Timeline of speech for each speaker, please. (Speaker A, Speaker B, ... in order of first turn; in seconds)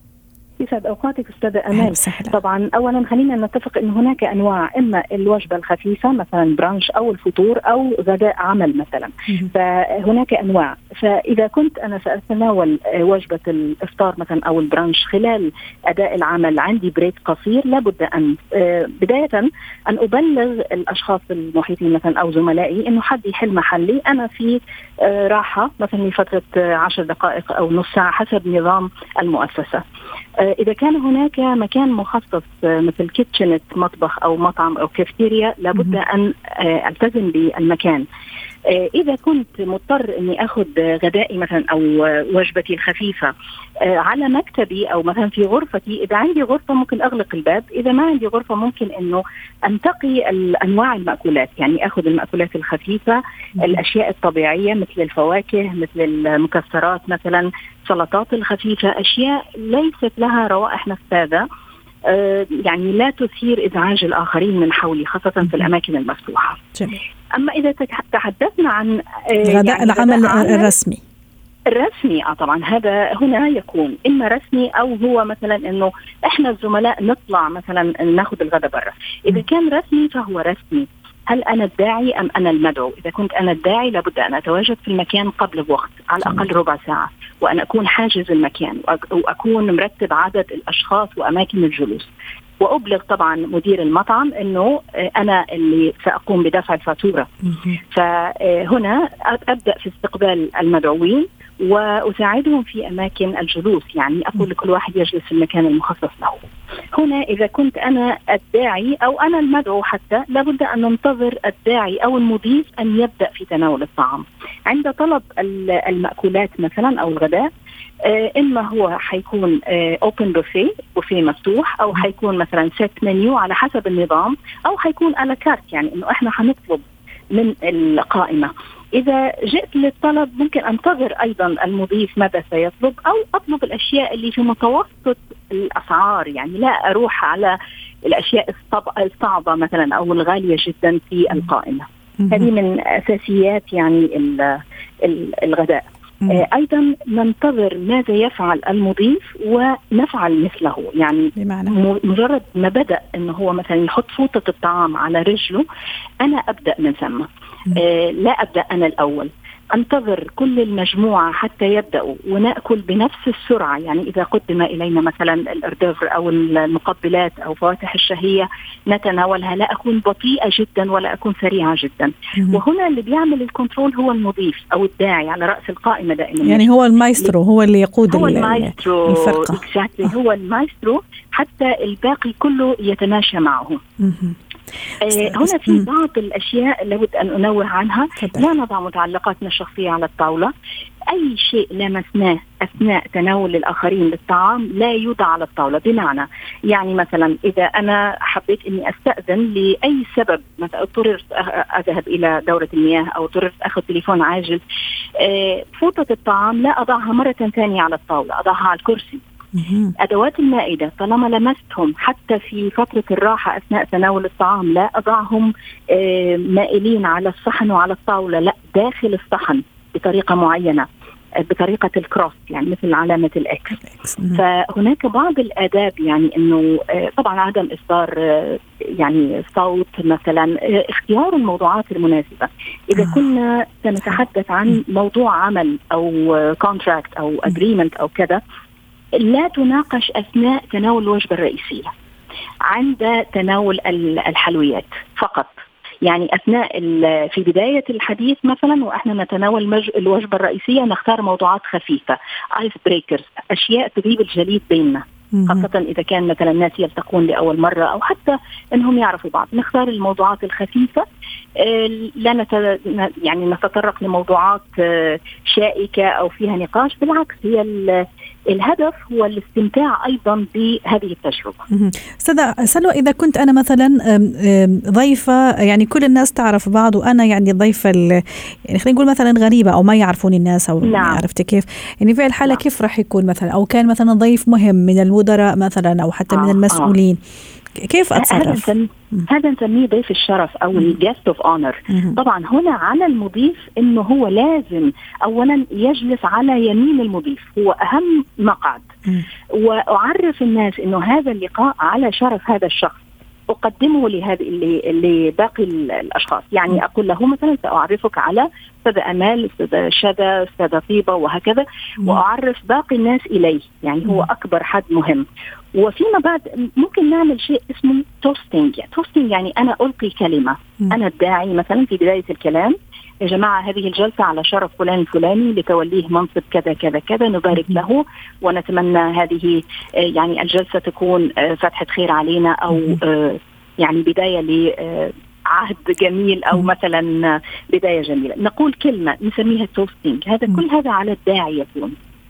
Speaker A: 0.6-29.8, 30.4-38.0, 38.6-43.3, 43.8-61.5, 62.1-66.6, 67.3-70.7, 71.7-97.3, 97.9-117.5, 118.0-155.6, 156.2-177.3, 178.1-183.8, 185.0-190.5, 191.1-204.6, 205.2-209.2, 210.0-220.9, 221.4-223.8, 224.3-238.4, 239.2-241.9, 242.7-261.1, 261.6-271.6, 280.8-281.2, 286.3-286.9, 288.1-298.9, 299.5-341.9
Speaker B: 1.7-2.4, 65.4-65.7, 66.8-67.0, 69.4-71.0, 97.5-97.8, 142.2-142.5, 151.4-151.8, 172.3-172.6, 176.4-179.6, 184.0-184.4, 185.1-185.9, 188.2-188.5, 209.5-209.9, 223.9-224.4, 255.3-255.7, 271.7-287.2, 287.7-289.2, 291.9-292.2, 332.7-333.0